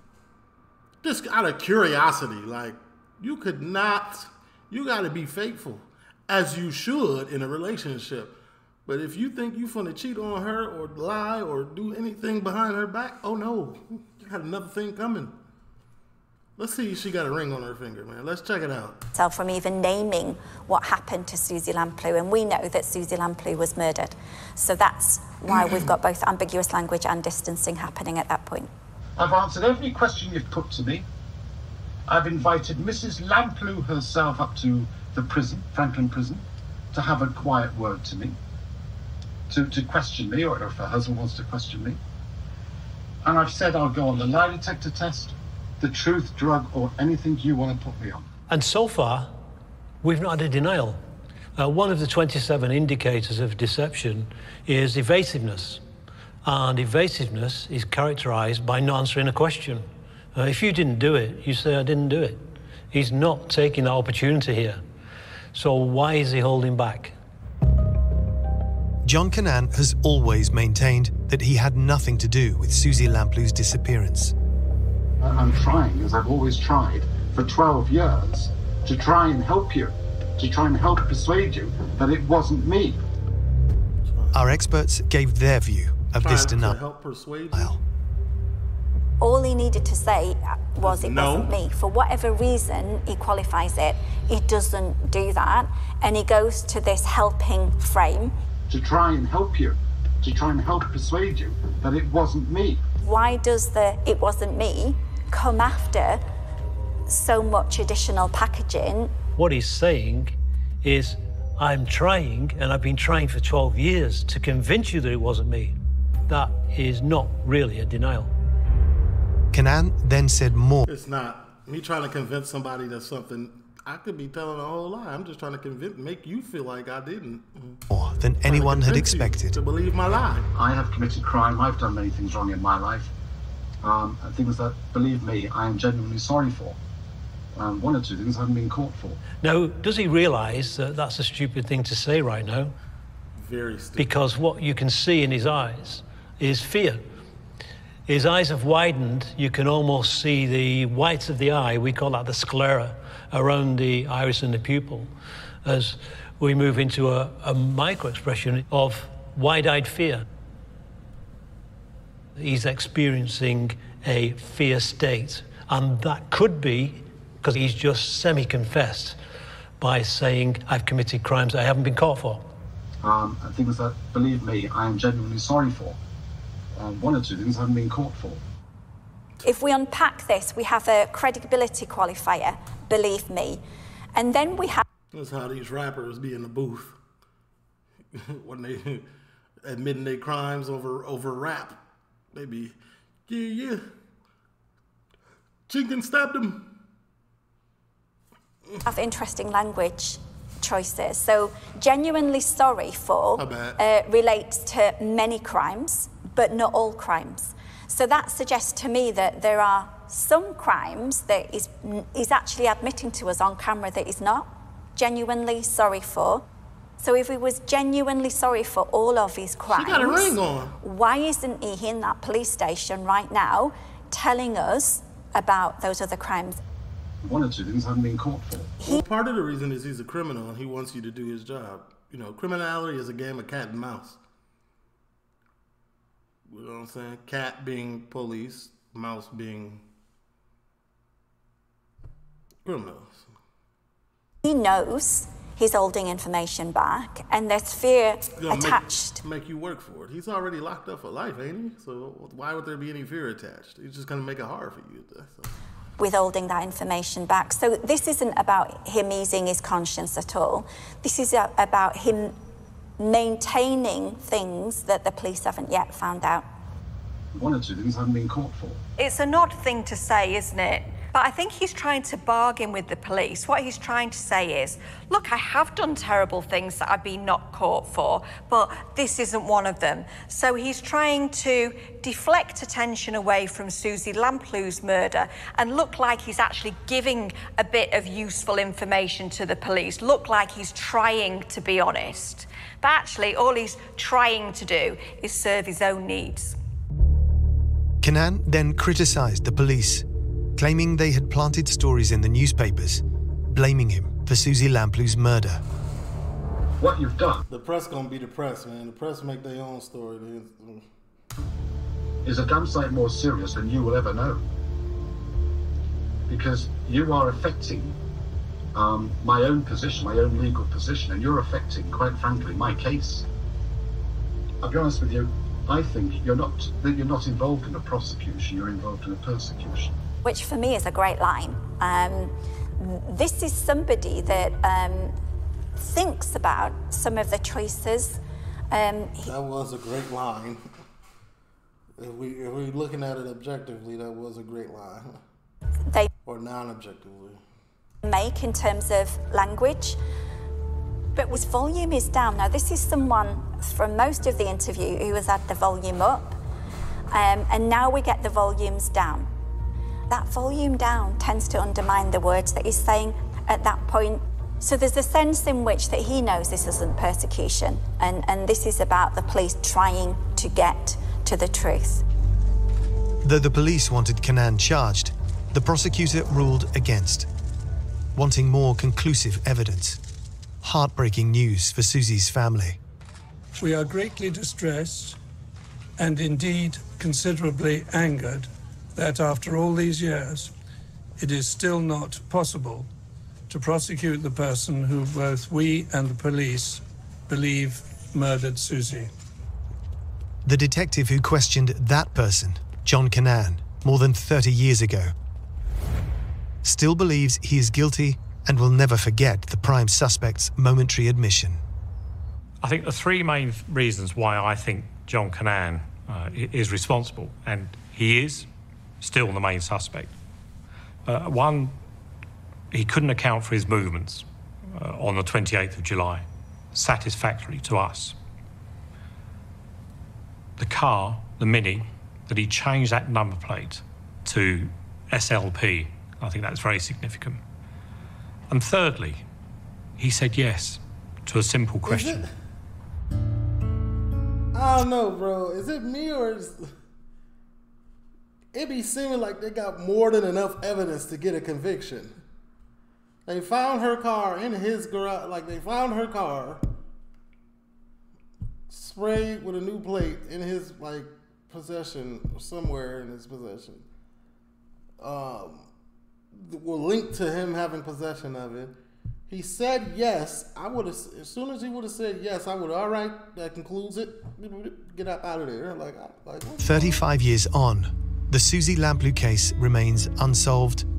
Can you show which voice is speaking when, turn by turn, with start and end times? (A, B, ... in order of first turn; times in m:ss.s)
0:01.0-0:15.3 A
0:16.6-0:19.0 A
0:19.1-0:28.7 B
0:25.5-0:25.9 A
0:29.2-0:31.0 C
0:32.1-0:38.4 C
0:39.5-0:42.0 C
0:43.2-0:48.2 C
0:48.5-0:49.3 D
0:50.0-0:51.0 D
0:51.6-0:55.8 D
0:56.4-1:04.8 D
1:05.5-1:07.2 D
1:09.0-1:14.3 E
1:15.2-1:23.0 C
1:24.1-1:24.4 A
1:24.3-1:26.8 E
1:26.2-1:27.8 A
1:27.5-1:27.8 E
1:29.2-1:38.3 B
1:30.8-1:31.5 A
1:38.7-1:42.8 C
1:43.0-1:46.2 B
1:47.1-1:49.1 B
1:49.4-1:58.3 D
1:59.5-2:00.9 E
2:00.9-2:07.8 A
2:07.9-2:09.6 E
2:08.5-2:10.5 A
2:10.5-2:13.1 C
2:13.8-2:16.8 C
2:17.5-2:19.2 C
2:19.4-2:22.7 D
2:23.4-2:24.1 A
2:24.0-2:27.0 D
2:28.1-2:35.1 D
2:35.6-2:40.2 D
2:42.4-2:49.2 D
2:49.8-2:52.5 D
2:53.0-2:56.0 C
2:56.7-2:58.4 C
2:59.4-3:03.6 B
3:04.1-3:04.8 B
3:05.1-3:07.0 A
3:08.1-3:09.1 A
3:09.6-3:11.8 A
3:12.3-3:12.8 A
3:13.3-3:13.8 A
3:15.7-3:16.7 A
3:18.8-3:36.4 B
3:23.4-3:23.8 A
3:37.0-3:46.6 B
3:39.7-3:40.8 A
3:47.2-3:48.7 C
3:48.8-3:54.2 A
3:56.5-3:59.8 A
4:02.6-4:03.3 A
4:04.4-4:09.2 B
4:08.4-4:15.5 A
4:16.0-4:22.3 B
4:23.0-4:26.4 B
4:27.3-4:28.8 C
4:29.0-4:56.6 F
4:58.0-5:05.6 E
5:06.8-5:07.4 C
5:07.5-5:10.9 A
5:12.2-5:14.4 C
5:16.3-5:18.0 C
5:18.7-5:23.3 C
5:24.6-5:30.0 C
5:30.2-5:35.1 B
5:35.8-5:38.2 B
5:38.7-5:39.3 B
5:39.2-5:40.6 A
5:42.0-5:45.2 A
5:46.2-5:47.4 A
5:48.0-5:50.0 B
5:51.1-5:56.4 B
5:57.1-5:59.3 B
6:00.1-6:12.0 B
6:13.2-6:17.3 E
6:18.1-6:20.0 E
6:20.6-6:22.8 E
6:23.6-6:25.2 G
6:26.0-6:30.5 G
6:31.2-6:32.9 G
6:33.5-6:39.1 G
6:40.4-6:45.1 E
6:46.6-6:51.6 E
6:52.6-6:58.5 H
6:59.0-7:00.1 H
7:01.0-7:01.7 H
7:02.7-7:08.2 H
7:10.6-7:17.4 H
7:18.5-7:19.2 H
7:20.0-7:22.2 H
7:21.8-7:22.3 A
7:24.5-7:26.7 A
7:28.5-7:32.2 A
7:33.2-7:36.6 A
7:38.7-7:43.8 A
7:45.0-7:45.7 A
7:46.3-7:48.8 A
7:49.3-7:57.0 A
7:56.6-8:00.9 E